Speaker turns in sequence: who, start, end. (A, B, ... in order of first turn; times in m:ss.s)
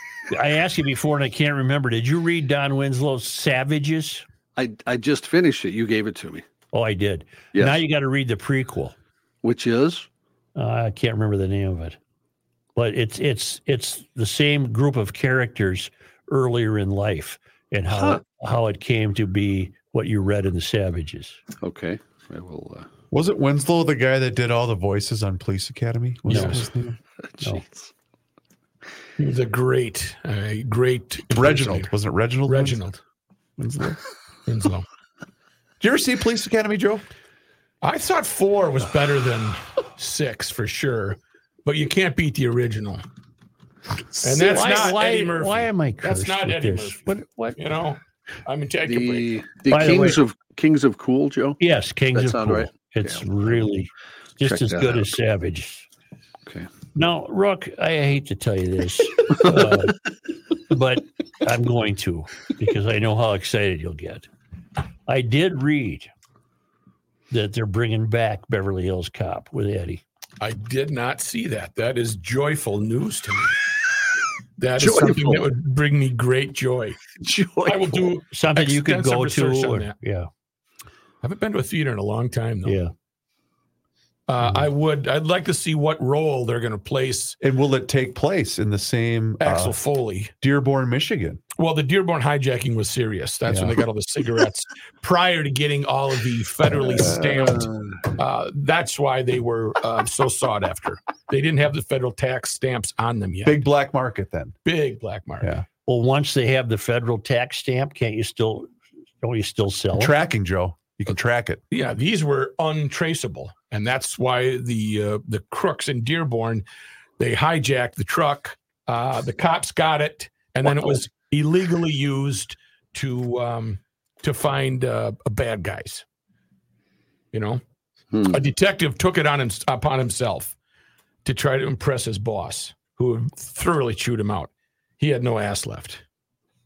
0:00.3-0:04.2 A
0:04.6-0:06.4 B
0:06.7-0:09.0 A
0:09.4-0:10.1 B
0:10.6-0:12.0 A
0:12.8-0:21.4 A
0:21.6-0:22.9 B
0:23.1-0:27.0 C
0:26.3-0:26.6 A
0:26.3-0:26.6 D
0:27.2-0:27.9 B
0:29.2-0:31.9 D
0:31.3-0:32.8 C
0:32.5-0:33.0 D
0:33.6-0:34.0 C
0:34.4-0:34.8 D
0:35.8-0:37.0 C
0:37.8-0:43.0 D
0:44.2-0:47.0 D
0:44.3-0:47.6 A
0:47.6-0:49.3 D
0:48.8-0:51.6 B
0:49.7-0:50.2 A
0:51.6-0:55.8 A
0:52.1-0:53.7 B
0:54.4-0:55.1 B
0:56.9-1:00.0 A
1:00.7-1:04.3 A
1:05.1-1:06.1 A
1:07.3-1:10.0 A
1:10.4-1:13.6 D
1:14.6-1:17.0 D
1:14.8-1:15.5 B
1:17.2-1:18.2 B
1:17.6-1:20.0 D
1:18.3-1:20.3 A
1:21.2-1:22.8 D
1:22.6-1:22.9 A
1:24.3-1:27.4 D
1:27.4-1:29.8 C
1:29.4-1:30.3 D
1:30.4-1:31.4 C
1:31.6-1:43.6 D
1:33.5-1:33.8 C
1:36.8-1:38.1 B
1:43.4-1:44.6 C
1:44.6-1:45.5 D
1:45.8-1:48.7 A
1:49.2-1:50.1 A
1:50.0-1:51.6 C
1:51.7-1:56.6 D
1:57.2-2:06.0 D
2:07.3-2:07.6 D
2:08.1-2:08.4 B
2:08.3-2:10.6 D
2:11.2-2:16.0 D